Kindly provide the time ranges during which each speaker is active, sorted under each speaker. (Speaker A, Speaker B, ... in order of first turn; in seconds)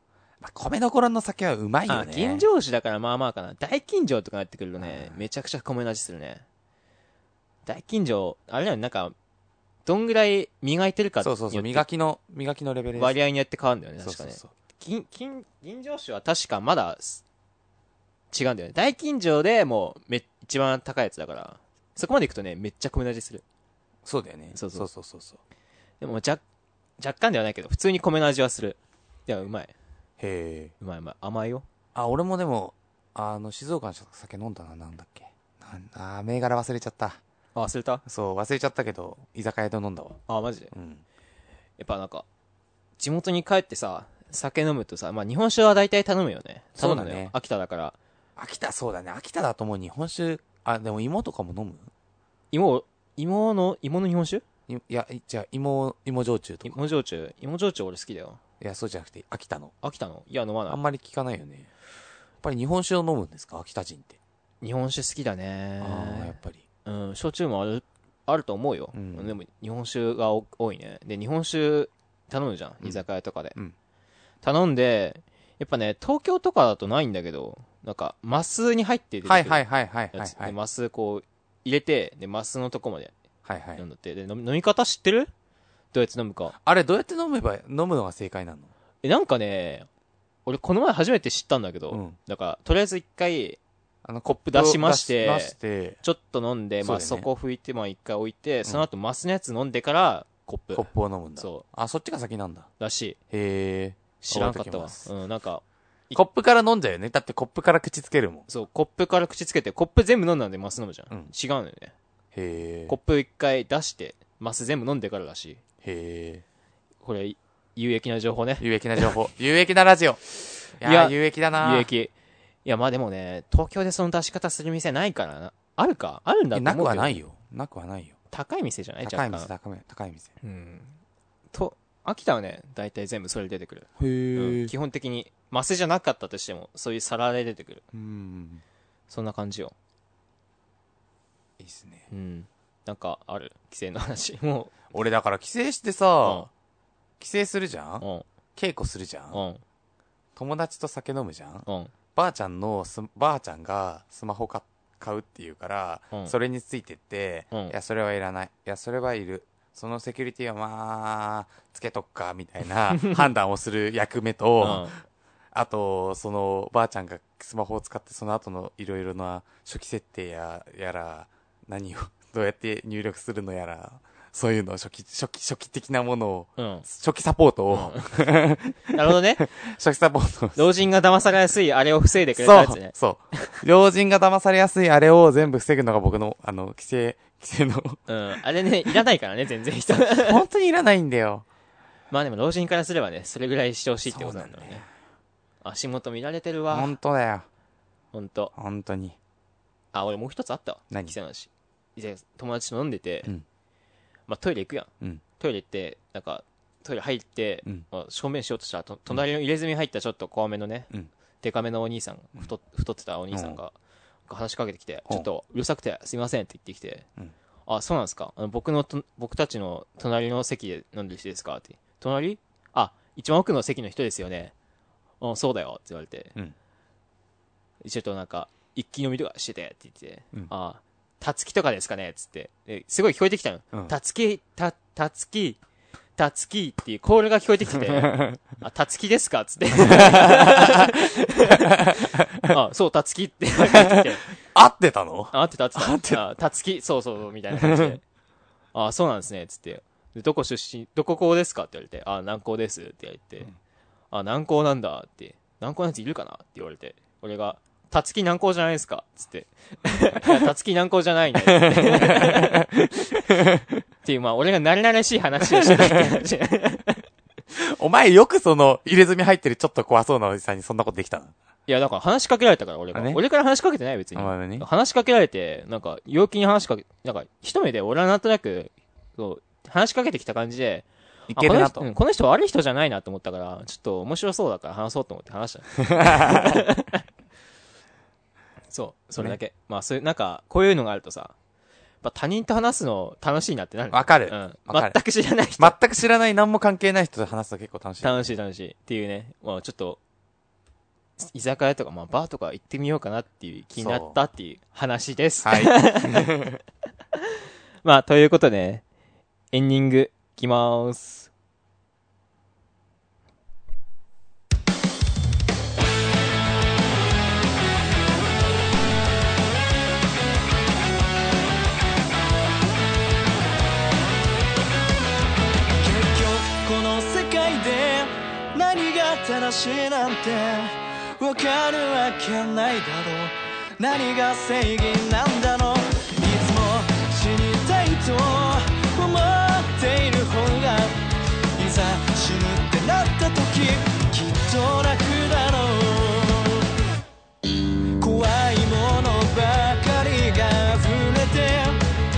Speaker A: 0.4-2.5, 4.8-5.2, 11.2-13.2, 14.0-14.5, 24.1-25.4, 30.2-30.7, 31.9-37.2, 38.0-40.2, 40.7-41.0, 46.8-47.4, 48.4-51.9, 54.7-56.8, 58.6-59.7, 60.7-61.7, 62.4-64.2, 65.8-66.6, 68.9-69.3, 79.3-80.5, 83.5-83.8, 86.6-88.7, 91.9-92.2, 94.0-96.0, 96.8-97.3, 100.7-102.7, 103.3-105.1, 106.1-108.5, 112.3-113.0, 115.8-116.4, 118.6-120.2, 120.8-121.9, 126.5-128.2, 129.0-130.3, 134.0-134.7, 137.9-138.6, 141.6-142.1, 144.9-146.5, 147.2-148.1, 148.6-149.4, 150.4-164.9, 165.5-180.6, 182.4-188.0, 190.0-191.5, 194.1-194.9, 196.7-197.5, 198.6-199.2, 200.9-201.2, 213.3-213.6, 237.9-238.4, 239.8-240.9, 241.5-242.5, 243.6-246.2, 247.6-248.0, 261.4-263.8, 265.4-266.2, 267.6-271.3, 272.9-273.2, 274.1-274.7, 281.3-281.9, 285.8-286.7, 293.9-295.0, 295.6-298.3, 303.8-304.2, 305.4-306.6
Speaker B: 1.9-6.5, 7.7-9.2, 9.9-11.9, 12.9-17.2, 18.3-23.4, 24.5-24.9, 26.0-26.4, 27.0-29.7, 30.8-31.6, 37.5-38.0, 40.3-40.7, 41.8-42.3, 43.0-48.0, 52.5-54.4, 56.6-58.4, 59.8-60.8, 64.6-73.6, 74.4-79.6, 80.1-83.1, 83.8-85.3, 85.9-86.5, 89.0-89.9, 90.5-93.6, 94.3-101.7, 102.8-103.2, 104.2-106.2, 108.5-111.9, 112.9-115.6, 117.0-119.2, 120.8-122.1, 122.7-127.2, 128.3-129.5, 130.4-131.0, 131.5-137.8, 139.1-139.7, 142.1-144.9, 146.2-146.5, 148.0-148.3, 149.3-149.6, 151.7-151.9, 164.6-164.9, 176.6-176.9, 177.7-178.1, 178.9-179.4, 180.6-183.6, 188.1-190.4, 192.1-194.8, 195.6-196.9, 198.1-198.5, 199.9-203.3, 204.3-213.8, 214.3-217.1, 217.7-224.5, 225.2-226.3, 227.8-235.6, 236.2-244.2, 245.3-248.0, 248.7-253.5, 254.1-263.2, 264.0-267.0, 271.7-287.1, 288.7-291.3, 292.0-295.8, 298.0-300.0, 301.2-306.4, 307.8-308.8, 309.5-311.3
Speaker C: 325.8-341.0, 341.6-346.7, 348.0-351.8